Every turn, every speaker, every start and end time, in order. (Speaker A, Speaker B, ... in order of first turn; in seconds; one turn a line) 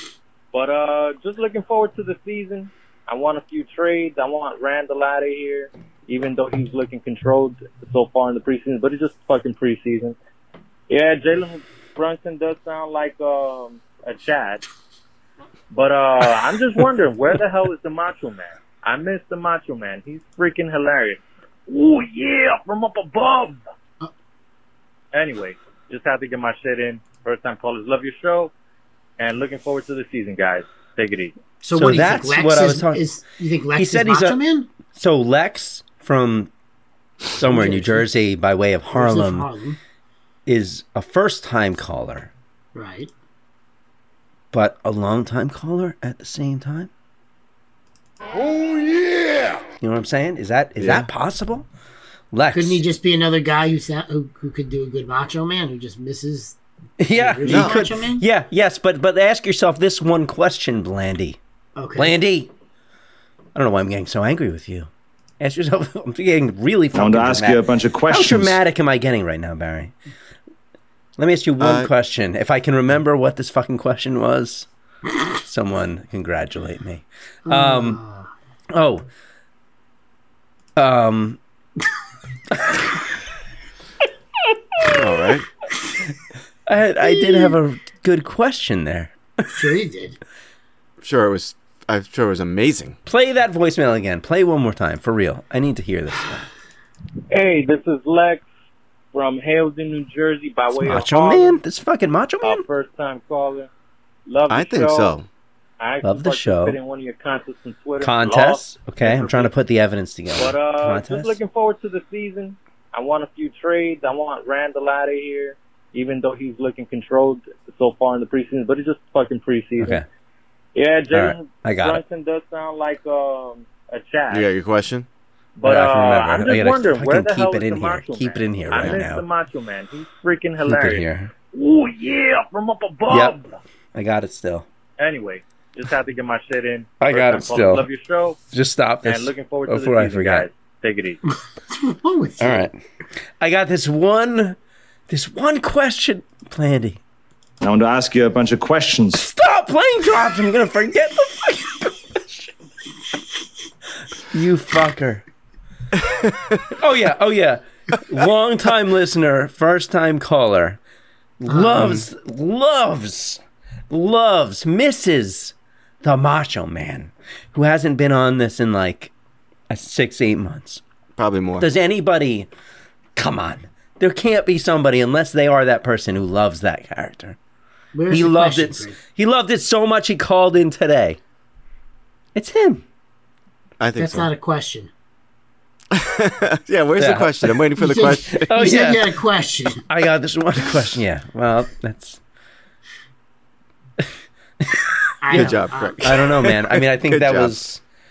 Speaker A: 0.5-10.2
Speaker A: 10.9-14.7
Speaker A: 15.7-23.6
Speaker A: 25.1-28.5
Speaker A: 29.2-31.4
Speaker B: 31.6-34.7
Speaker C: 31.7-33.0
Speaker C: 33.8-34.4
Speaker C: 34.9-36.5
Speaker C: 37.3-39.5
Speaker B: 37.4-38.1
Speaker B: 38.9-39.8
Speaker C: 40.5-42.3
Speaker B: 42.8-43.1
Speaker C: 44.5-46.9
Speaker C: 49.8-51.7
Speaker D: 50.8-51.1
Speaker C: 52.3-52.8
Speaker B: 52.5-56.6
Speaker C: 57.0-61.4
Speaker B: 57.1-58.2
Speaker D: 57.5-57.8
Speaker B: 61.8-62.1
Speaker C: 62.0-62.5
Speaker C: 63.5-69.9
Speaker E: 66.9-68.6
Speaker C: 71.2-74.7
Speaker D: 71.6-71.9
Speaker C: 75.3-78.0
Speaker B: 77.5-78.3
Speaker C: 78.7-79.1
Speaker C: 80.8-81.4
Speaker D: 84.8-85.5
Speaker C: 86.7-89.2
Speaker B: 87.0-87.5
Speaker B: 89.5-90.2
Speaker D: 91.0-93.0
Speaker C: 93.1-96.5
Speaker A: 97.3-98.5
Speaker A: 99.1-101.6
Speaker C: 100.8-102.6
Speaker A: 102.4-103.7
Speaker A: 104.3-105.2
Speaker D: 104.5-105.3
Speaker A: 105.8-109.5
Speaker C: 106.0-106.8
Speaker C: 108.0-111.4
Speaker A: 110.4-120.0
Speaker C: 119.8-120.0
Speaker A: 120.8-124.5
Speaker C: 121.1-122.0
Speaker D: 124.3-125.1
Speaker A: 125.6-133.5
Speaker C: 125.6-129.2
Speaker C: 130.7-131.3
Speaker C: 133.1-133.4
Speaker C: 133.9-134.7
Speaker A: 135.0-138.4
Speaker C: 137.0-137.9
Speaker C: 138.5-140.5
Speaker A: 139.0-141.2
Speaker B: 141.7-142.7
Speaker C: 142.4-142.8
Speaker C: 143.4-144.6
Speaker C: 145.1-147.0
Speaker E: 147.6-149.3
Speaker C: 149.2-152.5
Speaker C: 154.2-155.2
Speaker C: 156.8-160.8
Speaker C: 161.4-169.1
Speaker B: 161.5-162.0
Speaker C: 169.7-170.8
Speaker D: 171.2-171.7
Speaker C: 171.6-172.5
Speaker C: 173.2-177.4
Speaker B: 177.9-179.0
Speaker C: 178.1-181.2
Speaker C: 182.3-182.8
Speaker D: 183.8-184.3
Speaker B: 184.0-184.9
Speaker D: 185.9-188.5
Speaker C: 187.0-187.5
Speaker B: 187.8-189.8
Speaker C: 188.4-189.1
Speaker C: 189.9-192.2
Speaker C: 194.6-197.8
Speaker B: 195.2-196.1
Speaker D: 195.3-197.7